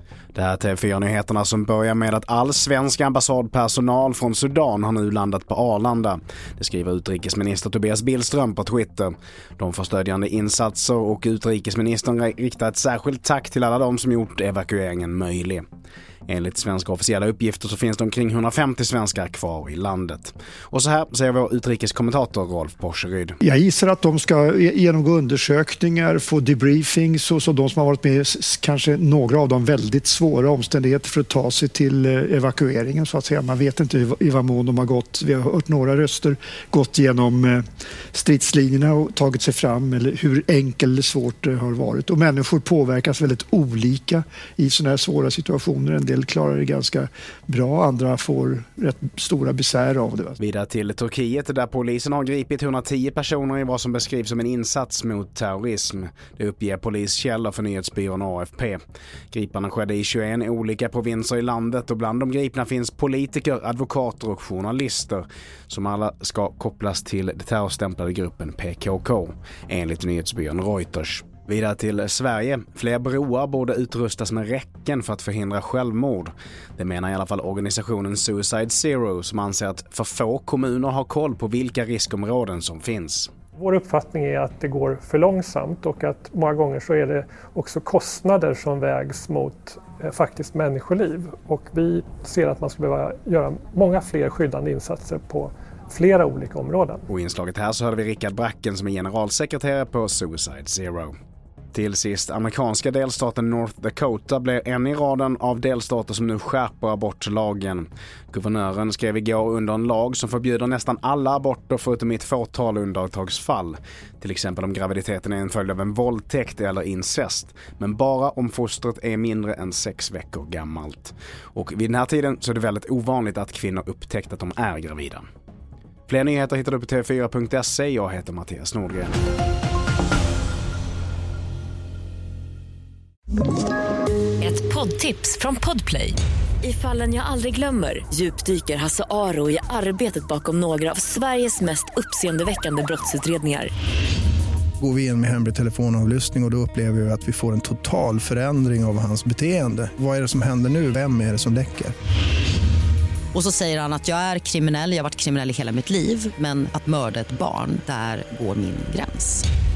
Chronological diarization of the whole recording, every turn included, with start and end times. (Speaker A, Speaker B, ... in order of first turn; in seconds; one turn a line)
Speaker A: 0.3-15.7
Speaker A: 16.3-23.4
Speaker B: 23.4-37.6
Speaker B: 38.1-50.4
Speaker A: 50.4-58.8
Speaker A: 59.3-83.3
Speaker C: 83.6-97.1
Speaker A: 97.1-101.2
Speaker A: 101.7-125.2
Speaker A: 126.1-129.2
Speaker D: 134.4-143.7
Speaker E: 144.8-151.9
Speaker F: 153.3-159.4